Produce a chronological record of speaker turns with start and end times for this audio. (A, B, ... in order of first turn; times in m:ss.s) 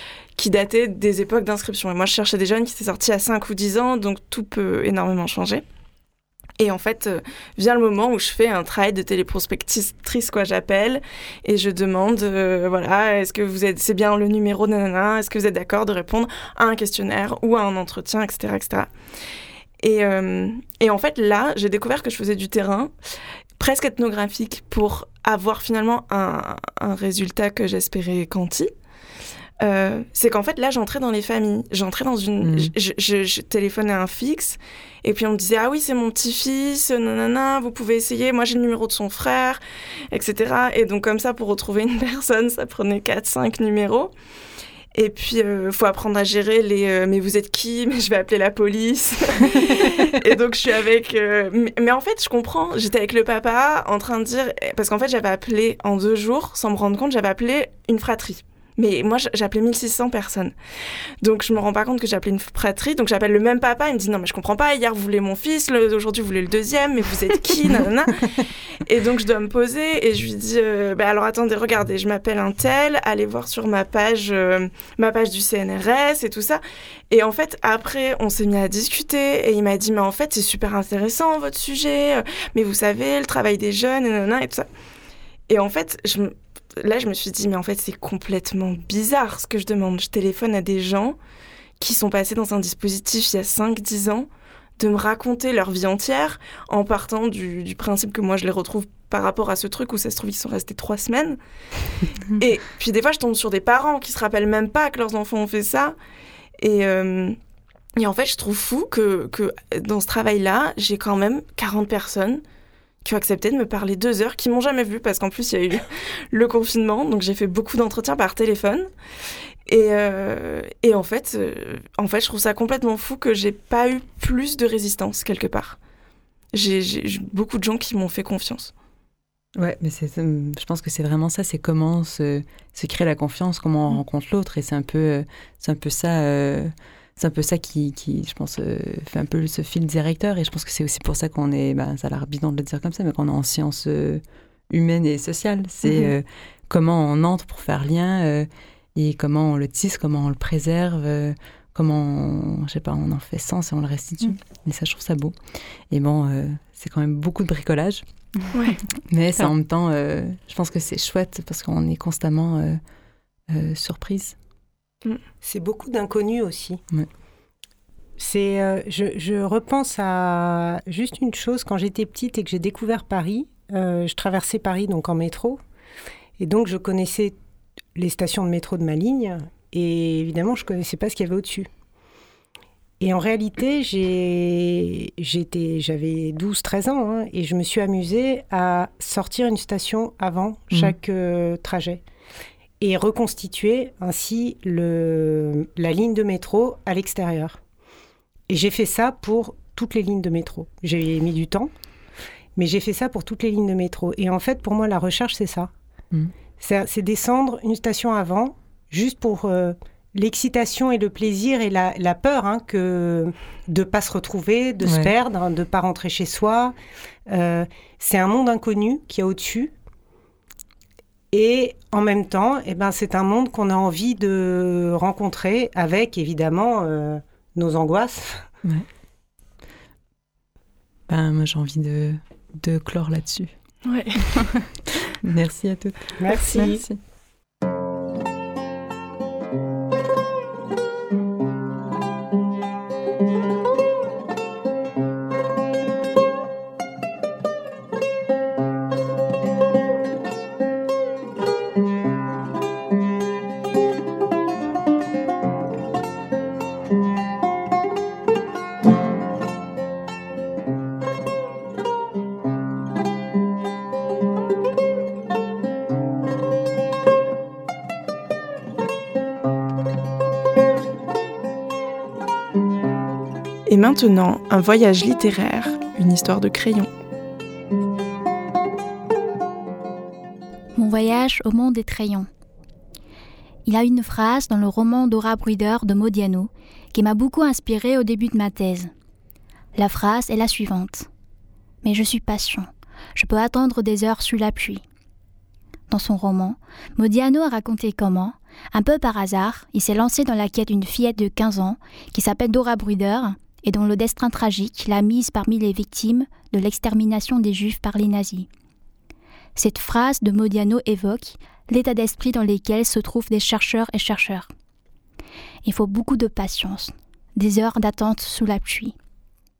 0:00.4-0:05.6 A
0:06.6-0:18.9 A
0:19.8-0:22.9 A
0:23.6-0:28.7 A
0:29.6-0:39.6 A
0:32.4-0:32.7 B
0:40.1-0:44.1 A
0:44.9-1:00.5 A
1:01.2-1:24.7 A
1:25.5-1:31.2 A
1:31.8-1:41.4 A
1:42.3-1:46.0 A
1:46.6-1:47.4 A
1:48.0-1:52.4 A
1:53.0-1:58.9 A
1:59.7-2:05.8 A
2:06.5-2:08.7 A
2:09.6-2:35.3 B
2:35.9-2:38.0 B
2:39.1-2:42.8 B
2:43.5-2:44.4 B
2:45.4-2:46.8 C
2:48.2-2:55.6 C
2:56.4-2:57.4 C
2:57.9-3:01.7 C
3:03.0-3:12.0 C
3:12.8-3:17.6 C
3:18.5-3:21.7 C
3:22.6-3:25.7 C
3:26.6-3:36.7 C
3:34.8-3:35.1 B
3:37.3-3:39.7 C
3:41.3-3:48.4 C
3:51.1-3:53.5 B
3:53.8-3:54.2 A
3:55.2-3:57.0 B
3:56.2-3:56.8 C
4:33.7-4:36.9 A
4:40.8-4:42.3 D
4:43.6-4:48.9 D
4:49.7-4:51.1 D
4:51.8-4:54.8 D
4:55.9-5:08.5 D
5:09.6-5:14.5 D
5:15.6-5:18.9 D